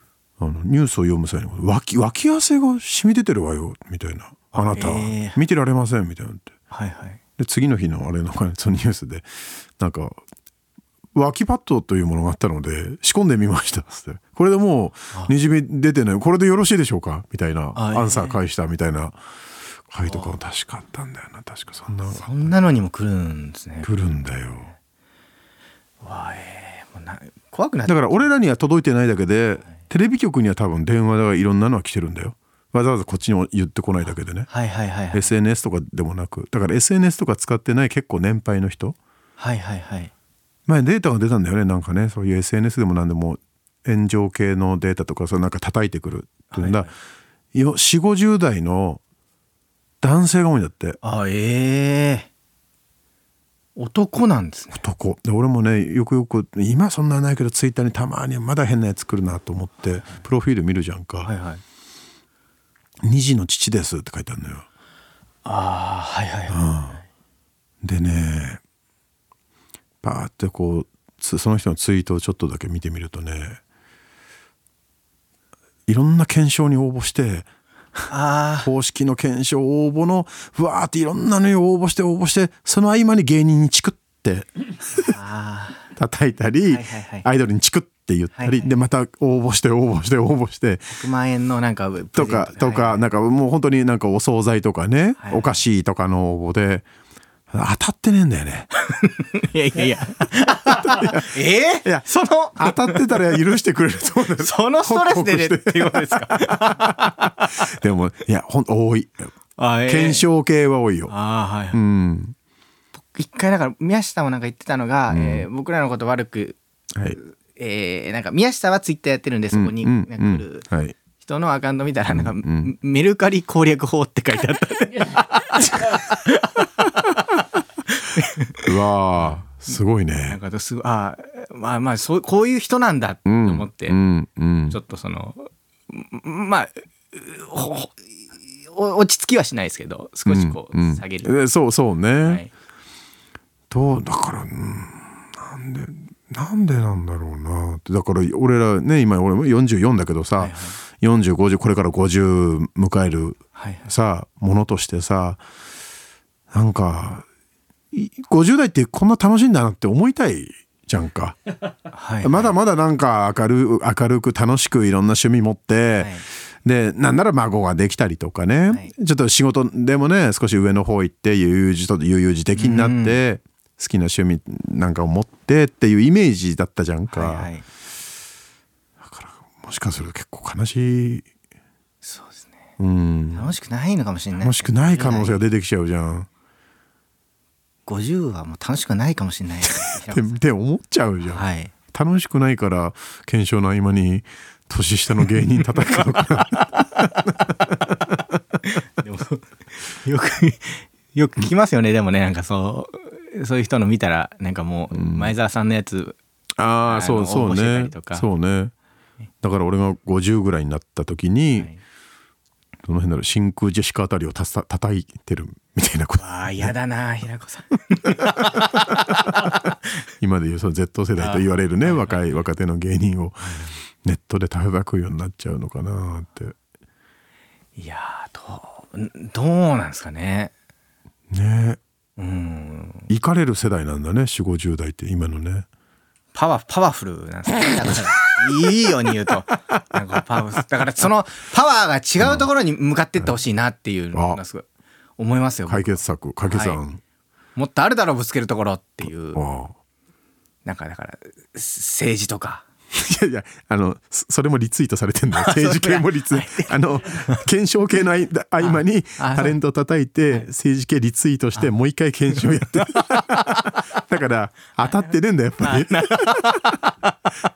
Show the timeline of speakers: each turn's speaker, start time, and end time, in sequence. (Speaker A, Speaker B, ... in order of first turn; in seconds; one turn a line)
Speaker A: 0.4-6.5
Speaker B: 4.5-5.4
Speaker B: 6.7-7.2
Speaker A: 7.4-10.2
Speaker A: 11.1-19.2
Speaker B: 17.7-18.4
Speaker A: 19.9-22.7
Speaker B: 20.1-20.3
Speaker B: 22.1-23.9
Speaker A: 23.8-24.7
Speaker B: 26.0-28.3
Speaker A: 27.9-34.5
Speaker B: 34.5-35.3
Speaker A: 35.1-39.0
Speaker B: 39.4-40.1
Speaker A: 40.7-46.9
Speaker B: 46.5-46.9
Speaker A: 47.5-49.0
Speaker A: 50.0-51.0
Speaker B: 51.0-52.3
Speaker B: 53.8-54.8
Speaker A: 54.7-61.3
Speaker B: 61.2-61.6
Speaker A: 63.0-64.6
Speaker B: 65.4-66.9
Speaker A: 66.5-67.0
Speaker A: 67.8-68.6
Speaker A: 70.0-73.6
Speaker A: 75.9-85.2
Speaker B: 78.1-78.7
Speaker B: 85.1-85.9
Speaker A: 85.9-91.1
Speaker B: 86.7-87.3
Speaker B: 88.3-88.7
Speaker B: 91.0-93.0
Speaker A: 92.1-96.8
Speaker B: 95.2-95.6
Speaker A: 97.5-98.7
Speaker B: 98.7-103.2
Speaker A: 100.8-106.9
Speaker B: 104.4-107.5
Speaker A: 107.5-109.3
Speaker B: 109.6-110.2
Speaker A: 109.9-111.1
Speaker B: 111.1-111.8
Speaker A: 111.7-112.3
Speaker B: 113.1-116.6
Speaker A: 115.1-115.5
Speaker B: 117.2-120.7
Speaker A: 119.5-121.0
Speaker B: 121.2-127.4
Speaker A: 122.1-122.7
Speaker B: 127.9-128.7
Speaker A: 128.6-130.4
Speaker B: 130.3-134.0
Speaker A: 133.2-134.8
Speaker B: 134.7-141.3
Speaker A: 140.2-142.4
Speaker B: 142.2-142.5
Speaker A: 143.7-155.4
Speaker B: 150.4-150.8
Speaker B: 153.6-153.9
Speaker A: 156.5-157.2
Speaker A: 157.9-161.4
Speaker B: 161.9-162.5
Speaker A: 162.2-177.5
Speaker B: 166.0-166.2
Speaker B: 172.6-173.2
Speaker B: 177.1-177.6
Speaker A: 179.0-181.2
Speaker B: 182.0-182.6
Speaker A: 182.8-183.5
Speaker B: 183.3-185.4
Speaker A: 184.4-186.3
Speaker B: 187.8-190.4
Speaker A: 189.7-197.9
Speaker B: 191.2-191.7
Speaker B: 198.6-206.2
Speaker A: 204.9-205.3
Speaker A: 206.6-208.7
Speaker B: 206.8-208.3
Speaker A: 209.4-211.7
Speaker A: 212.8-216.7
Speaker B: 216.2-218.8
Speaker B: 219.4-219.8
Speaker A: 220.2-226.5
Speaker B: 221.2-222.2
Speaker B: 227.8-230.5
Speaker A: 231.3-231.8
Speaker B: 232.2-233.1
Speaker A: 233.1-235.7
Speaker B: 236.3-244.6
Speaker A: 242.2-242.5
Speaker A: 244.1-244.4
Speaker B: 245.2-246.8
Speaker A: 245.7-247.0
Speaker B: 247.6-249.4
Speaker A: 249.3-249.8
Speaker B: 250.6-252.6
Speaker A: 252.9-266.7
Speaker B: 255.3-257.4
Speaker B: 258.6-259.6
Speaker B: 262.3-262.8
Speaker B: 265.6-266.9